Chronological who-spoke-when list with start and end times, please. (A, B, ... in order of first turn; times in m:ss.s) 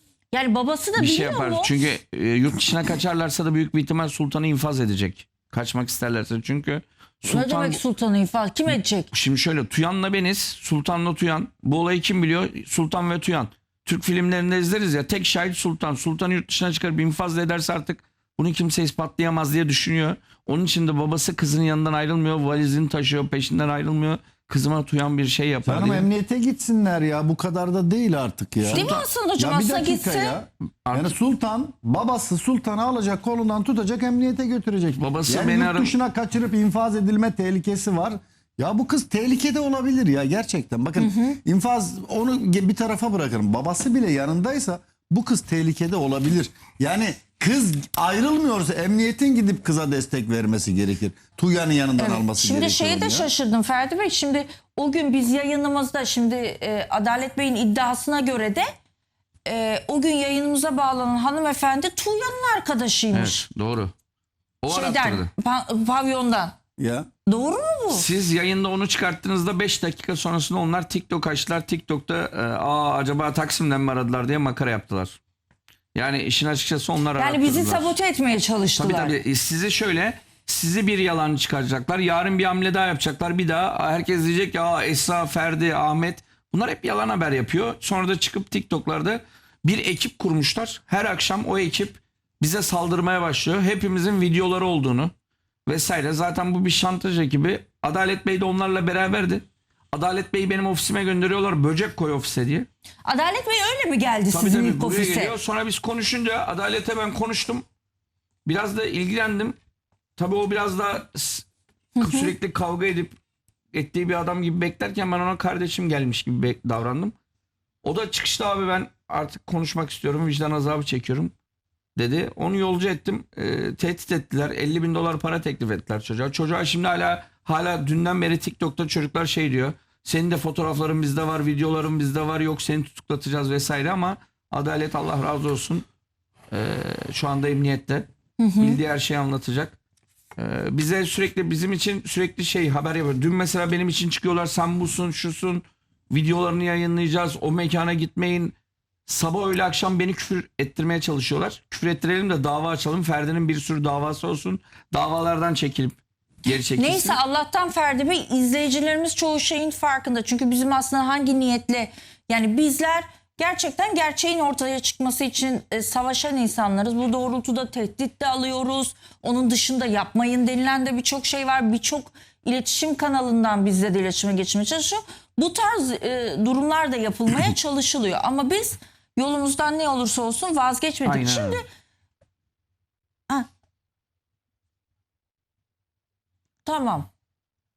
0:00.3-0:01.8 A
0:01.0-0:07.8 B
0:07.3-0:09.1 A
0:09.1-0:26.1 B
0:25.6-0:53.3 C
0:28.7-0:30.4 A
0:28.7-0:29.0 B
0:30.9-0:31.1 B
0:35.0-0:35.9 B
0:41.0-0:41.4 A
0:52.0-0:58.7 A
0:59.5-1:03.5 A
1:03.1-1:03.9 B
1:04.6-1:05.3 B
1:04.7-1:06.6 A
1:06.8-1:07.1 C
1:07.3-1:08.1 A
1:07.9-1:15.2 B
1:15.9-1:17.9 B
1:17.2-1:19.2 A
1:18.8-1:35.1 B
1:35.7-1:42.7 B
1:43.0-1:45.4 A
1:44.3-1:47.7 B
1:48.4-1:49.6 B
1:50.2-1:51.5 B
1:52.0-1:52.3 A
1:52.0-1:53.2 B
1:53.7-1:57.1 B
1:57.8-2:01.3 B
2:02.0-2:15.8 B
2:16.5-2:18.1 B
2:18.4-2:18.8 A
2:18.6-2:19.8 B
2:20.4-2:28.6 B
2:29.1-2:37.2 B
2:36.8-3:01.6 A
3:01.0-3:01.6 B
3:06.6-3:07.1 A